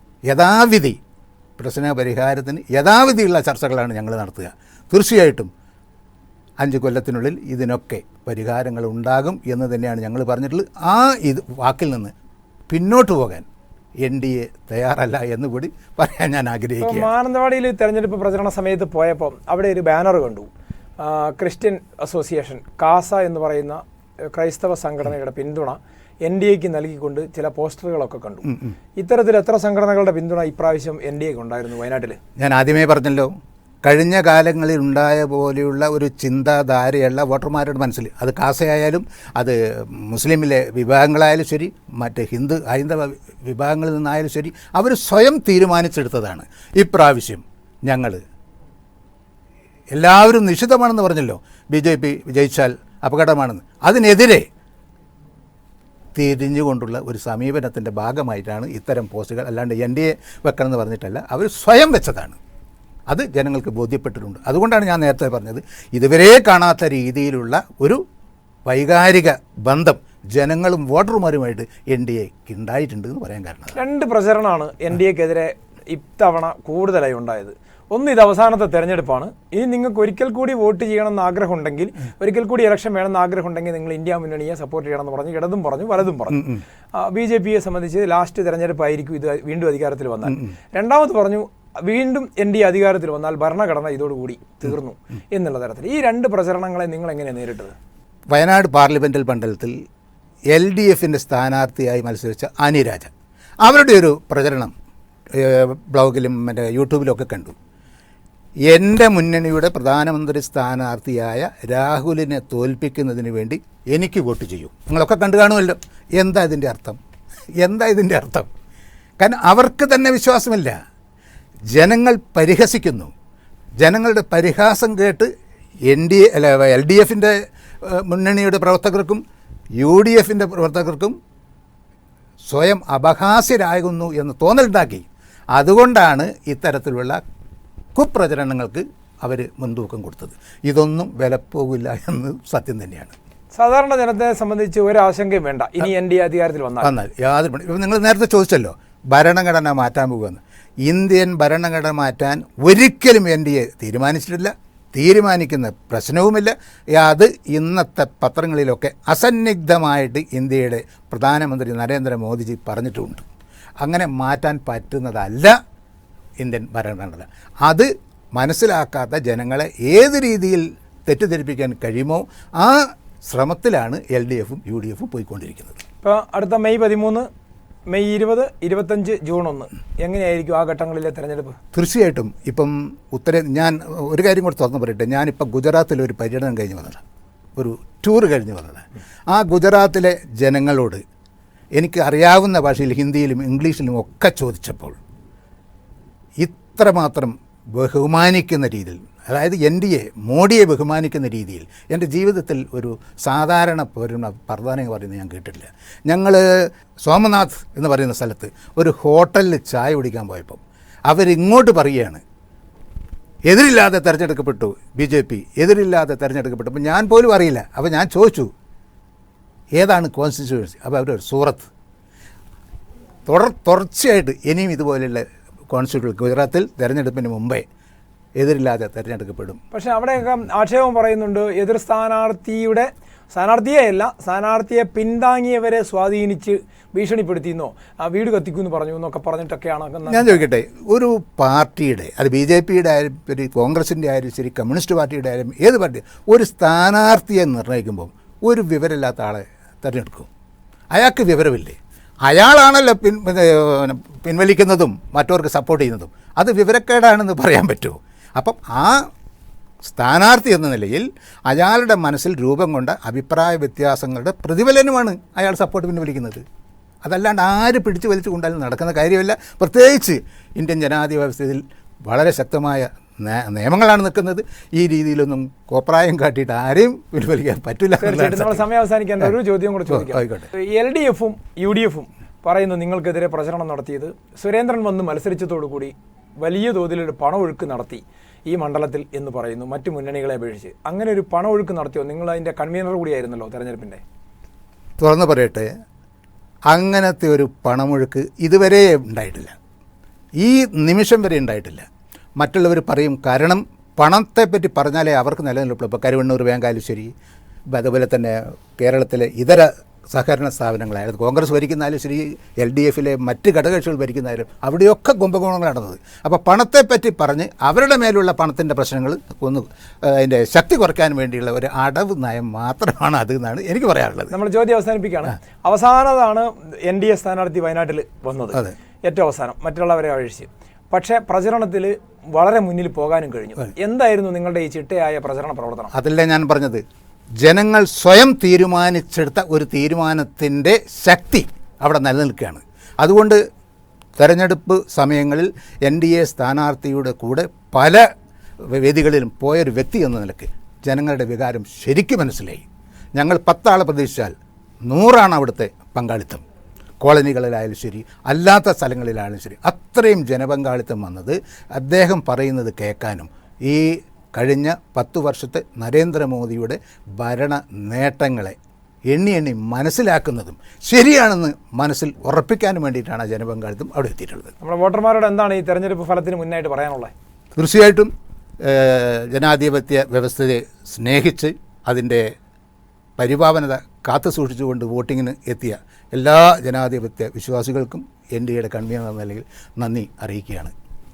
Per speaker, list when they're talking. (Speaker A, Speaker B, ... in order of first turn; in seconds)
Speaker A: 0.3-1.0, 1.6-5.5, 6.6-12.1, 12.7-13.4, 14.0-17.1, 28.4-28.8, 32.4-33.3, 33.8-48.2, 49.9-54.5, 56.1-62.4, 63.1-68.0, 68.7-73.8, 86.3-86.6, 90.3-90.5, 98.3-99.8, 100.5-103.1, 103.6-104.7, 105.3-107.5, 108.7-117.0, 117.6-118.5, 119.2-120.7, 121.7-123.1, 123.8-125.3, 125.9-129.2, 129.8-131.1, 132.5-137.2, 137.9-143.1, 146.8-163.2, 163.8-165.5, 166.4-175.8, 181.7-187.0, 187.6-191.0, 191.7-195.0, 196.4-212.2, 213.5-218.5, 219.8-221.7, 223.2-227.6, 228.4-229.6, 240.1-250.3, 250.9-259.1, 259.8-266.4, 267.0-278.6, 279.9-280.5, 295.0-295.7, 296.7-299.5, 300.4-301.9, 302.4-307.1, 307.7-324.3, 335.9-336.8, 337.4-343.4, 344.2-348.0, 348.7-352.6, 353.1-354.3, 354.9-356.4, 357.0-368.6, 369.1-374.5, 377.6-378.1, 378.6-382.3, 383.2-390.7
Speaker B: 16.8-20.5, 21.0-32.2, 73.7-97.7, 143.6-146.9, 176.0-177.3, 177.9-181.6, 229.7-240.4, 278.0-294.0, 324.3-335.9, 374.6-377.1